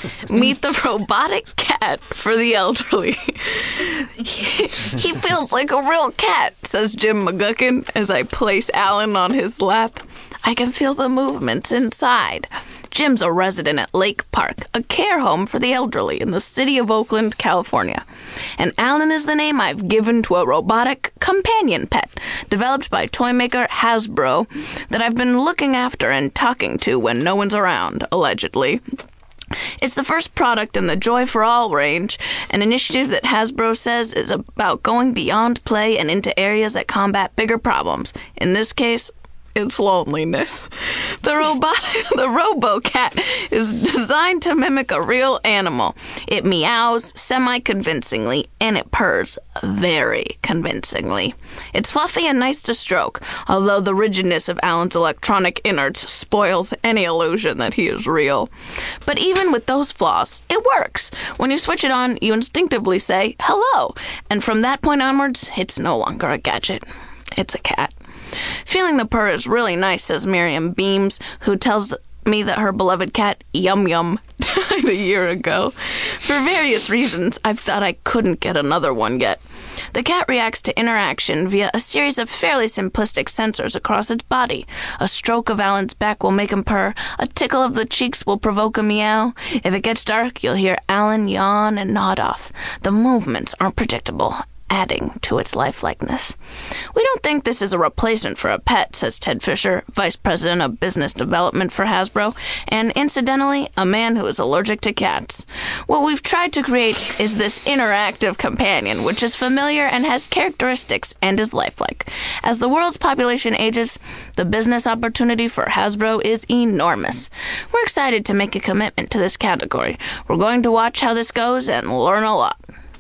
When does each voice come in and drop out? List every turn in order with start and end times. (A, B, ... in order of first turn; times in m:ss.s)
0:00.2-0:18.0 A
0:18.6-0:28.8 A
0:29.8-0:58.5 A
0:59.0-1:07.9 A
1:08.6-1:36.4 A
1:36.9-2:02.6 A